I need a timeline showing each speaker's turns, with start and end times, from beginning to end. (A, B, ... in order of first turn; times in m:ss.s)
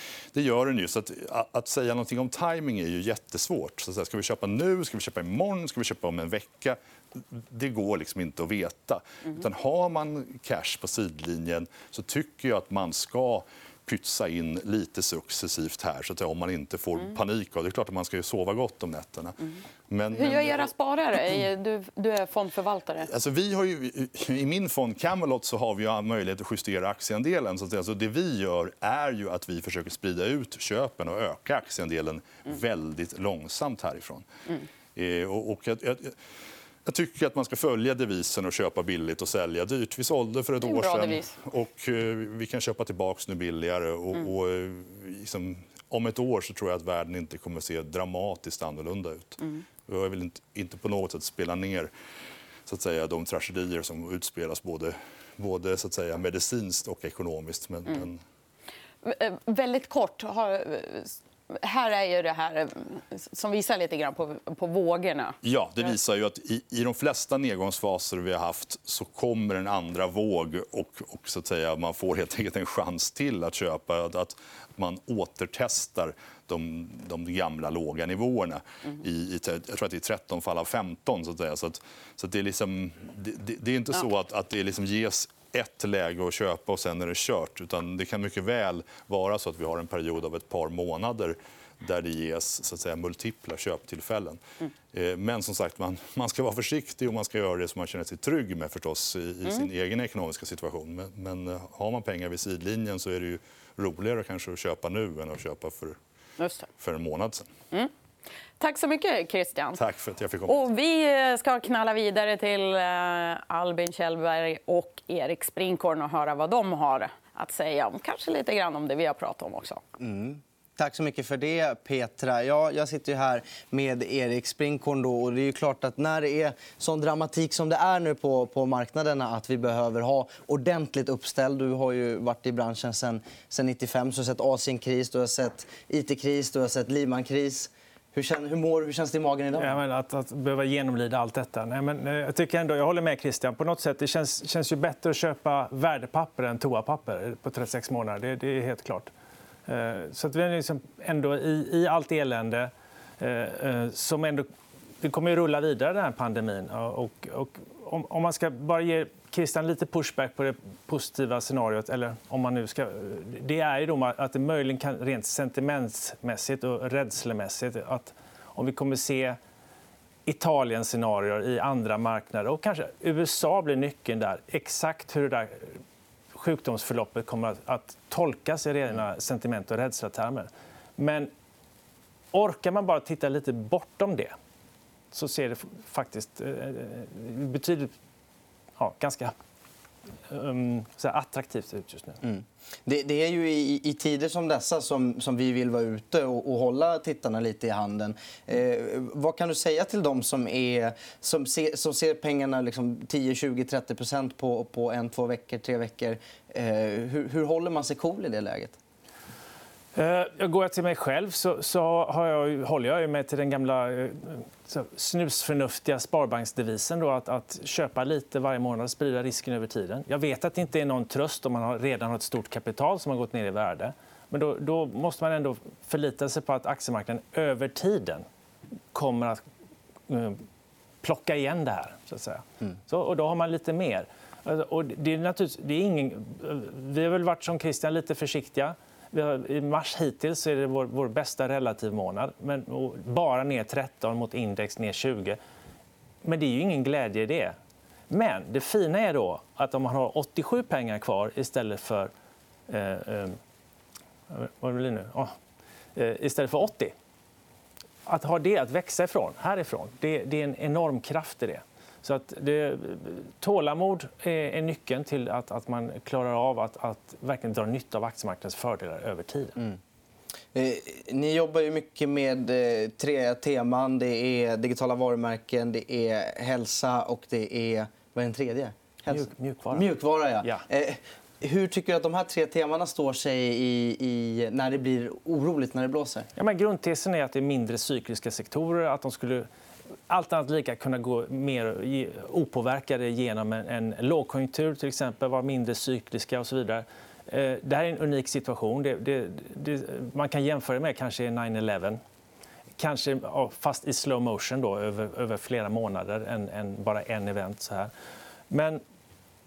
0:00.3-0:19.4 A
0:19.9-0:20.7 A
0:20.1-0:23.1 B
0:23.0-0:34.2 A
0:35.0-0:36.2 A
0:36.8-0:51.9 A
0:40.6-0:41.3 B
0:52.6-0:58.2 A
0:59.0-1:05.4 B
1:05.4-1:34.4 A
1:34.9-1:46.0 A
1:46.4-1:46.7 B
1:46.8-1:47.5 A
1:48.6-1:49.8 B
1:49.8-1:50.6 A
1:50.4-1:59.8 B
2:00.0-2:19.8 C
2:19.5-2:29.1 D
2:29.7-2:34.4 D
2:35.0-2:49.4 D
2:50.2-2:55.7 D
2:56.3-3:01.3 D
3:02.3-3:04.3 D
3:05.1-3:07.9 D
3:08.8-3:09.3 D
3:10.3-3:12.2 D
3:12.2-3:28.8 C
3:29.9-3:48.2 D
3:48.9-3:49.4 D
3:50.1-3:50.4 D
3:51.0-4:05.4 D
4:06.2-4:07.6 D
4:08.1-4:12.1 D
4:12.7-4:13.4 D
4:14.3-4:15.3 D
4:15.9-4:16.9 D
4:18.0-4:29.6 D
4:30.5-4:46.3 C
4:39.1-4:39.9 D
4:46.4-4:49.5 D
4:50.1-5:02.0 D
5:02.8-5:07.9 D
5:08.5-5:08.8 D